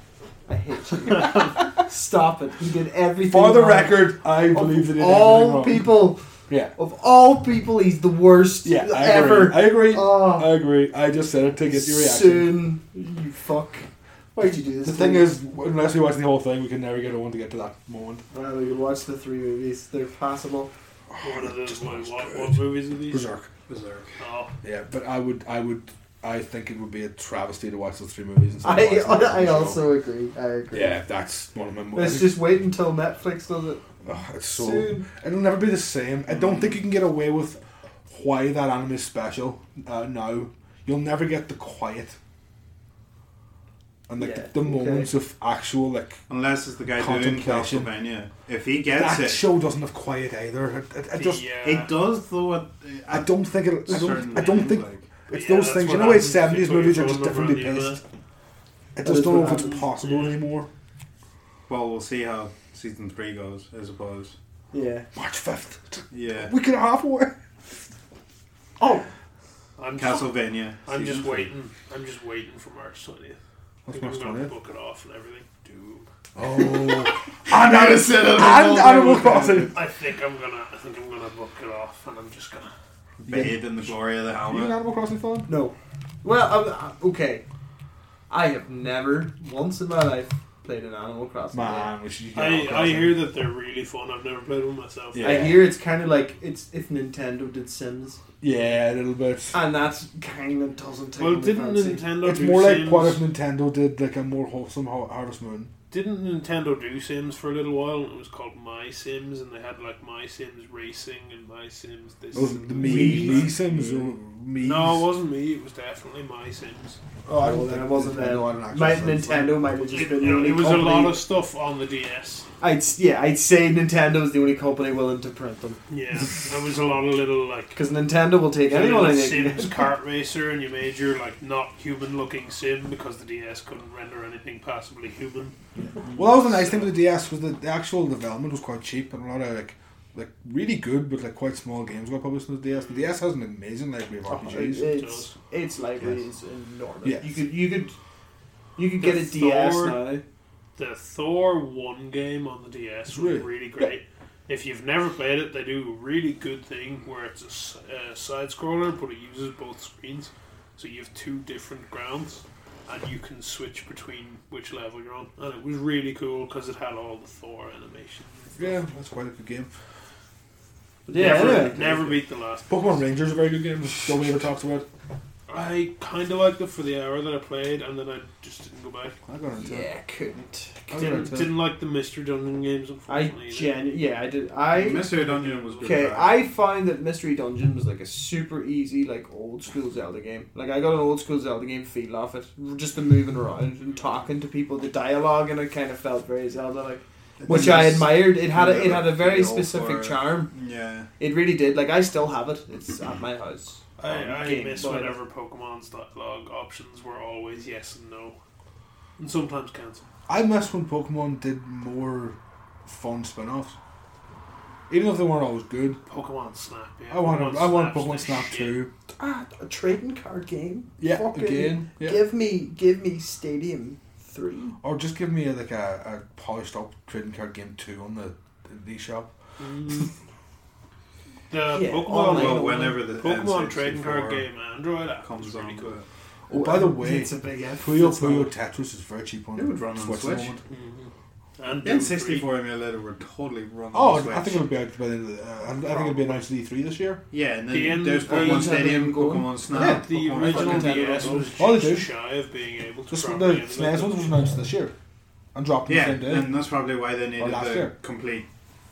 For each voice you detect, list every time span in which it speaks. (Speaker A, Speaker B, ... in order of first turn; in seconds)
Speaker A: 0.5-6.2, 6.7-10.5, 11.7-15.3, 18.3-20.7, 28.6-30.9, 31.9-33.8, 34.5-35.0, 44.2-45.1, 59.0-59.8, 64.7-65.1, 68.8-69.1, 85.5-87.4, 88.3-91.9, 95.2-98.2, 99.5-102.0, 112.8-113.5, 117.3-121.2, 122.6-125.8, 127.7-129.9, 144.3-147.9, 148.8-150.2, 171.1-172.0, 179.6-181.3, 183.1-185.2, 185.8-200.5, 201.2-205.2, 219.2-224.8, 231.7-233.1, 236.5-238.5, 248.2-251.5
Speaker B: 3.2-5.9, 8.6-12.6, 14.8-18.2, 21.1-23.5, 24.6-29.8, 30.7-32.4, 34.0-42.2, 44.1-46.2, 46.9-47.9, 48.9-51.4, 53.1-58.0, 59.0-60.7, 65.1-67.3, 73.8-74.5, 76.3-79.8, 83.2-83.9, 84.4-85.5, 91.5-93.2, 95.1-95.6, 98.4-99.5, 102.2-105.7, 112.3-115.1, 117.3-119.7, 136.1-144.9, 147.0-147.4, 153.1-153.9, 168.6-169.7, 171.2-171.7, 172.7-174.8, 179.2-179.9, 180.9-181.5, 210.3-213.8, 214.9-216.0, 217.1-218.9, 221.0-222.2, 224.8-229.3, 236.5-240.6, 243.9-247.2, 251.6-252.1, 253.1-254.9, 255.5-256.6, 257.4-257.9
Speaker C: 21.2-23.2, 24.2-24.5, 51.1-51.9, 55.3-58.0, 59.6-60.4, 69.8-73.4, 73.9-76.0, 79.7-82.7, 92.3-95.4, 101.2-103.2, 105.9-113.6, 114.6-117.0, 119.9-122.5, 125.9-127.8, 128.7-135.6, 136.4-136.9, 142.7-143.1, 144.8-145.3, 149.0-150.0, 150.8-168.8, 171.1-173.0, 175.5-179.2, 180.9-183.8, 185.1-186.1, 204.0-208.4, 209.2-210.1, 216.1-218.8, 229.6-230.1, 231.5-236.0, 240.7-242.5, 247.7-248.9, 249.7-254.3
Speaker D: 23.7-24.1, 36.3-36.8, 46.3-49.4, 51.6-53.3, 53.9-55.0, 61.7-64.3, 66.1-66.5, 70.0-71.5, 76.6-79.8, 83.3-84.7, 113.7-114.0, 184.7-186.4, 197.4-201.1, 232.1-234.4, 235.2-236.1, 239.6-240.6, 241.8-244.6, 247.3-251.3, 255.9-258.5